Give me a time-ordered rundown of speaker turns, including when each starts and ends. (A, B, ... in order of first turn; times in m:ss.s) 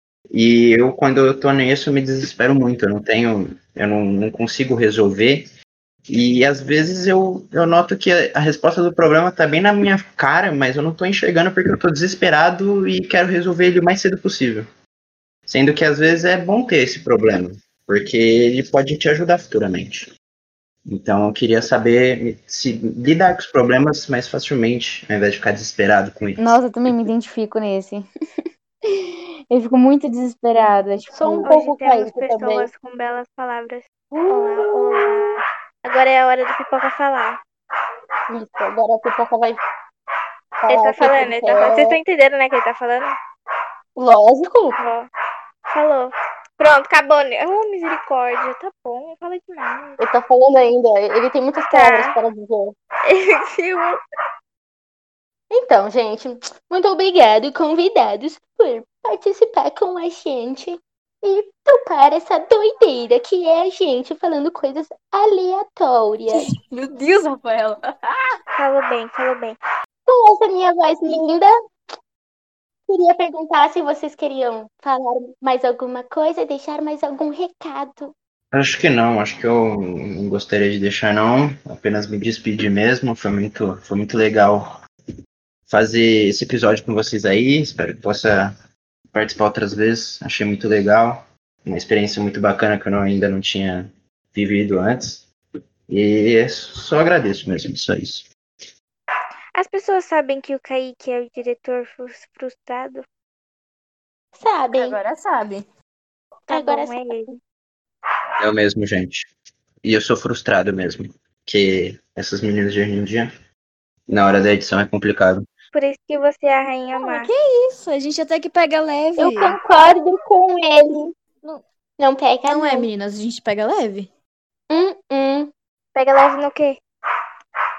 0:00.3-0:05.5 A
0:06.1-0:14.7 A
0:15.5-0:20.1 A
0:20.9-0:26.6 A
0:26.4-0:28.0 B
0:29.5-0:31.5 B
0:31.1-0:32.7 C
0:31.4-0:37.4 D
0:34.1-0:35.2 C
0:38.3-0:39.6 C
0:40.6-0:42.0 C
0:40.7-0:43.1 D
0:44.0-0:44.8 C
0:44.8-0:45.1 D
0:45.7-0:50.0 D
0:50.0-0:52.8 C
0:51.7-0:52.2 D
0:53.0-0:54.0 D
0:55.5-1:06.5 C
1:06.3-1:07.9 E
1:08.6-1:09.6 D
1:10.1-1:11.5 C
1:12.9-1:18.1 C
1:18.5-1:24.7 A
1:25.7-1:28.6 A
1:29.1-1:35.3 A
1:35.9-1:38.3 A
1:39.6-1:43.0 D
1:44.4-1:45.0 C
1:44.7-1:45.6 E
1:46.5-1:47.3 C
1:46.5-1:47.4 D
1:48.4-1:49.3 A
1:49.8-1:53.3 A
1:54.1-1:55.5 A
1:55.7-1:57.3 D
1:57.0-1:59.6 E
1:59.2-2:01.1 C
2:02.0-2:02.9 C
2:02.5-2:04.1 E
2:04.7-2:05.5 C
2:06.0-2:06.8 D